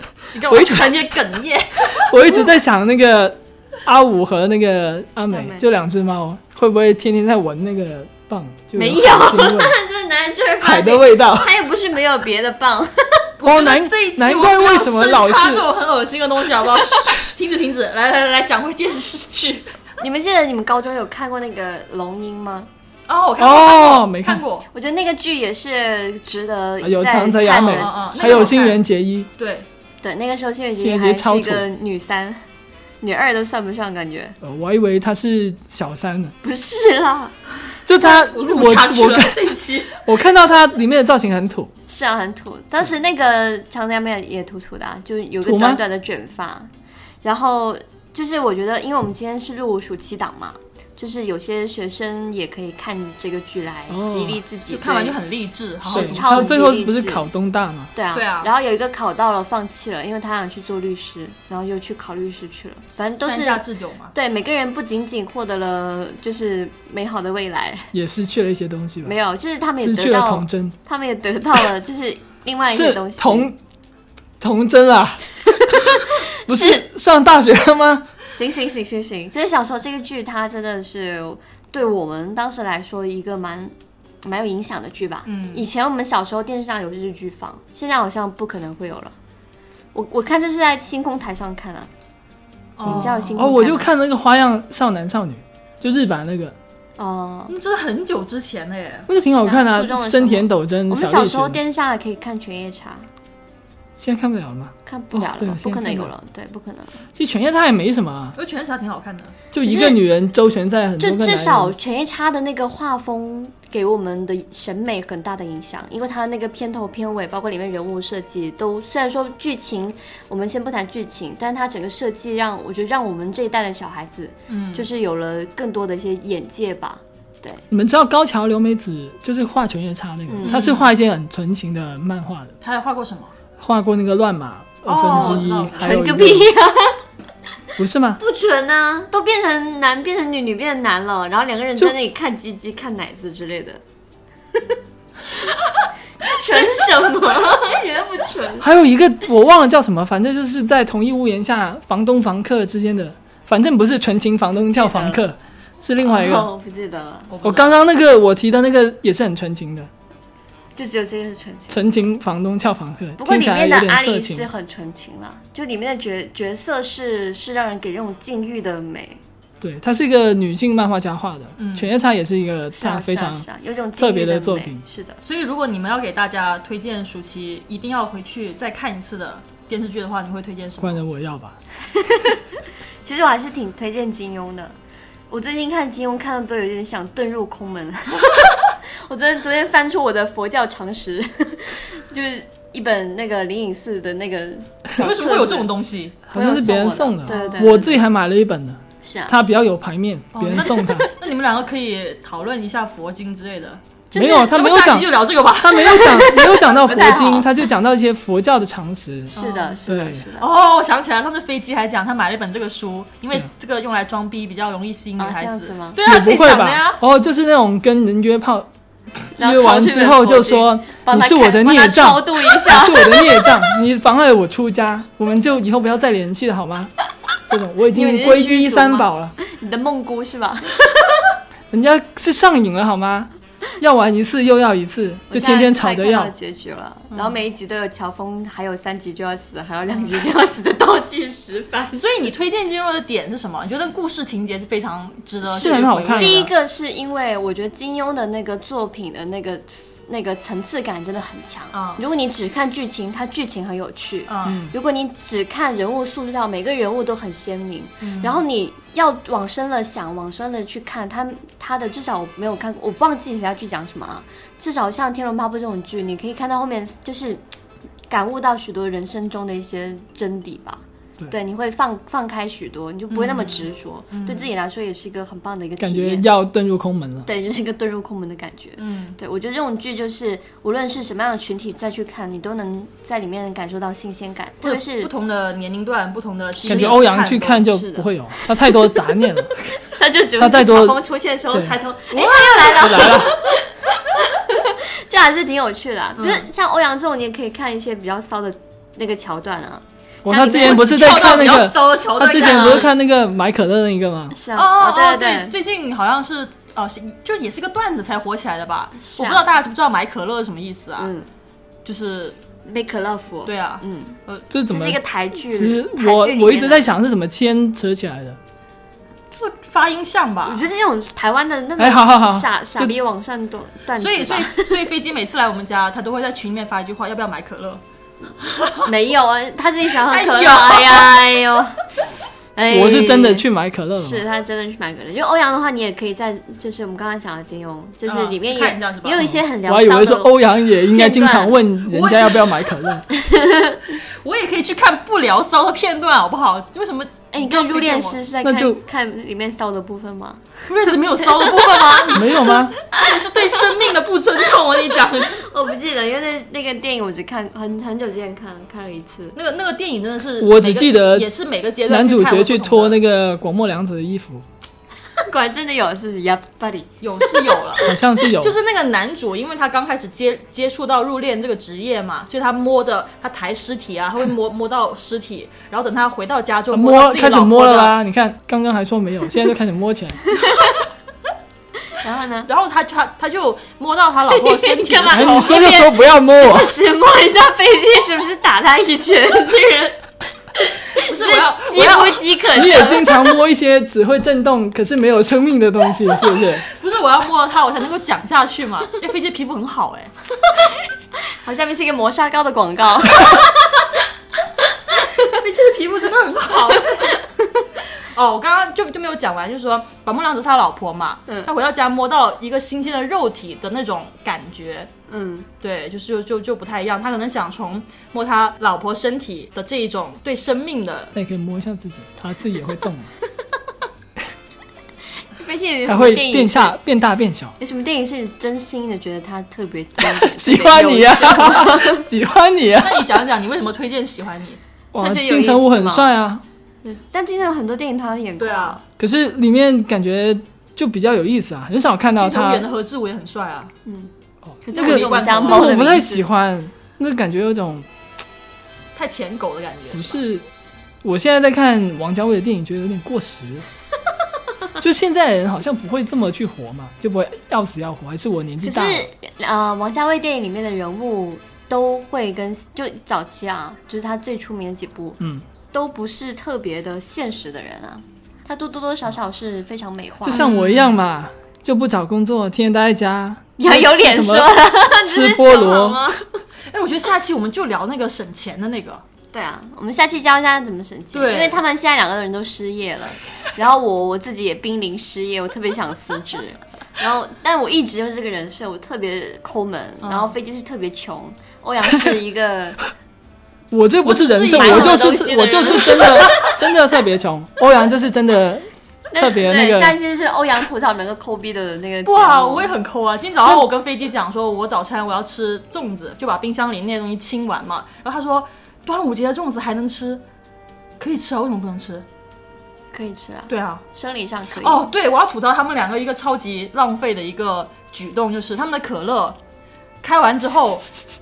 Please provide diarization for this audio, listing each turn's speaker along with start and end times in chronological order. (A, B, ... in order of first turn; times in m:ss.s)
0:00.3-0:02.4 A
0:00.5-0:01.0 B
0:01.9-0:09.8 B
0:05.3-0:05.6 C
0:08.8-0:13.3 C
0:10.6-0:11.5 B
0:13.4-0:19.7 A
0:13.4-0:15.7 B
0:20.0-0:22.7 C
0:23.1-0:24.7 A
0:23.4-0:24.4 B
0:24.7-0:28.6 C
0:26.8-0:29.3 B
0:27.6-0:28.8 A
0:29.4-0:29.7 A
0:30.0-0:32.4 C
0:30.8-0:31.6 B
0:33.0-0:34.4 C
0:34.4-0:36.3 B
0:36.4-0:37.4 C
0:37.9-0:41.7 B
0:38.0-0:40.0 A
0:41.9-0:46.7 C
0:45.4-0:45.8 B
0:47.2-0:55.2 C
0:53.9-0:54.4 B
0:54.7-0:56.5 A
0:55.8-0:57.3 C
0:55.9-0:57.9 B
0:57.9-1:07.9 C
0:58.1-0:58.5 A
1:03.2-1:04.1 A
1:07.9-1:09.2 B
1:09.0-1:13.5 C
1:09.8-1:10.8 B
1:12.7-1:13.6 B
1:14.4-1:18.1 B
1:15.6-1:16.9 C
1:18.3-1:29.1 C
1:25.3-1:25.7 A
1:29.9-1:31.9 C
1:32.8-1:33.4 A
1:32.8-1:33.9 C
1:32.9-1:36.6 B
1:37.0-1:37.5 C
1:37.5-1:39.1 A
1:39.1-1:41.6 B
1:39.2-1:43.1 C
1:44.0-1:46.1 B
1:44.9-1:47.1 C
1:47.2-1:48.4 B
1:48.4-1:49.4 A
1:49.5-1:51.7 B
1:49.6-1:50.0 C
1:51.0-2:07.7 C
2:04.5-2:04.9 A
2:07.7-2:12.5 B
2:10.3-2:10.7 C
2:10.4-2:10.9 A
2:12.6-2:13.3 A
2:13.6-2:16.5 B
2:14.9-2:16.0 A
2:15.1-2:17.0 C
2:17.8-2:18.2 B
2:18.2-2:23.8 C
2:26.2-2:28.7 C
2:28.6-2:36.5 B
2:34.8-2:35.2 C
2:36.0-2:37.3 C
2:37.3-2:37.8 A
2:37.4-2:39.9 B
2:40.8-2:42.0 C
2:41.7-2:44.5 B
2:43.2-2:49.2 C
2:49.6-2:53.4 B
2:51.6-2:51.9 A
2:52.7-2:55.2 C
2:54.0-2:54.8 B
2:55.2-3:01.0 A
3:00.8-3:01.6 B
3:01.9-3:02.4 C
3:03.0-3:04.8 C
3:05.3-3:15.7 C
3:15.0-3:16.2 A
3:16.3-3:21.1 B
3:16.3-3:18.0 C
3:17.3-3:17.8 A
3:19.0-3:19.4 C
3:20.3-3:23.8 A
3:20.6-3:21.1 C
3:24.1-3:24.5 C
3:24.1-3:29.4 B
3:24.4-3:26.2 A
3:25.8-3:27.6 C
3:29.4-3:29.8 A
3:29.4-3:30.5 C
3:29.9-3:30.2 B
3:30.4-3:37.0 A
3:35.2-3:36.0 C
3:36.0-3:38.7 B
3:39.4-3:46.9 B
3:39.4-3:43.7 C
3:47.5-3:49.4 B
3:47.9-3:51.3 C
3:51.7-3:53.3 B
3:53.8-3:56.3 B
3:55.3-4:02.0 C
3:57.1-3:57.4 A
3:59.9-4:00.2 A
4:01.9-4:06.5 A
4:05.5-4:06.5 B
4:05.5-4:27.4 C
4:11.7-4:12.0 A
4:14.3-4:14.6 A
4:14.5-4:14.7 B
4:18.0-4:18.4 A
4:28.1-4:36.2 C
4:33.1-4:34.5 A
4:35.8-4:37.3 B
4:37.3-4:45.1 C
4:38.8-4:39.2 A
4:44.6-4:47.7 A
4:46.6-4:47.1 C
4:46.6-4:49.5 B
4:47.6-4:48.8 C
4:49.8-4:51.0 C
4:50.4-4:51.8 B
4:50.7-4:53.3 A
4:51.6-5:01.6 C
4:52.7-4:53.4 B
4:56.2-4:56.4 A
5:00.2-5:04.4 B
5:00.6-5:02.9 A
5:02.4-5:02.9 C
5:04.3-5:05.6 C
5:04.5-5:11.1 A
5:09.0-5:09.4 C
5:11.0-5:11.3 C
5:11.8-5:12.4 A
5:12.7-5:14.2 C
5:13.5-5:14.5 A
5:14.5-5:18.4 B
5:14.7-5:16.9 C
5:19.3-5:20.6 A
5:20.5-5:24.8 C
5:21.8-5:22.9 B
5:24.0-5:27.8 A
5:28.4-5:28.9 A
5:28.8-5:31.9 C
5:30.0-5:31.2 A
5:32.6-5:33.5 C
5:32.7-5:34.2 B
5:34.0-5:40.4 C
5:38.1-5:39.3 A
5:39.2-5:43.0 B
5:40.9-5:41.6 C
5:41.9-5:42.6 A
5:43.1-5:43.9 C
5:44.0-5:48.2 A
5:47.3-5:52.5 C
5:48.4-5:48.8 B
5:50.7-5:55.4 A
5:52.1-5:52.7 B
5:55.2-5:59.4 C
5:59.4-6:03.0 A
6:00.4-6:01.3 B
6:01.9-6:04.4 B
6:05.2-6:07.8 C
6:07.0-6:18.0 A
6:07.8-6:08.6 B
6:16.7-6:20.3 B
6:20.3-6:20.8 C
6:21.9-6:22.5 C
6:22.5-6:25.7 A
6:24.3-6:30.0 C
6:25.1-6:26.7 B
6:30.6-6:33.3 C
6:31.0-6:32.2 A
6:32.6-6:36.7 B
6:36.8-6:40.1 A
6:41.4-6:44.0 C
6:45.0-6:45.4 C
6:45.2-6:47.2 A
6:47.0-6:47.3 C
6:48.0-6:54.9 A
6:55.1-6:55.5 C
6:55.6-7:01.1 A
7:01.1-7:03.1 B
7:05.4-7:06.8 C
7:05.9-7:07.5 B
7:07.6-7:12.0 C
7:10.0-7:13.2 B
7:12.8-7:14.6 A
7:14.9-7:16.4 B
7:15.0-7:16.1 C
7:16.8-7:18.8 C
7:18.4-7:18.8 A
7:19.0-7:22.7 B
7:22.2-7:23.7 A
7:24.6-7:26.2 C
7:24.7-7:25.8 A
7:24.7-7:27.9 B
7:29.0-7:30.2 A
7:29.9-7:30.4 B
7:31.0-7:33.7 B
7:34.8-7:39.1 B
7:38.6-7:45.2 C
7:45.7-7:50.5 C
7:50.2-7:56.0 B
7:50.3-7:51.0 A
7:53.6-7:56.3 C
7:56.7-7:59.0 A
7:59.3-8:12.8 C
8:01.1-8:01.6 A
8:10.0-8:10.3 A
8:13.7-8:18.7 B
8:14.0-8:16.4 A
8:14.5-8:16.6 C
8:19.1-8:22.7 C
8:19.2-8:20.0 B
8:22.0-8:30.2 A
8:31.0-8:32.0 A
8:32.9-8:34.8 C
8:33.5-8:33.8 A
8:34.6-8:39.4 A
8:40.0-8:40.8 A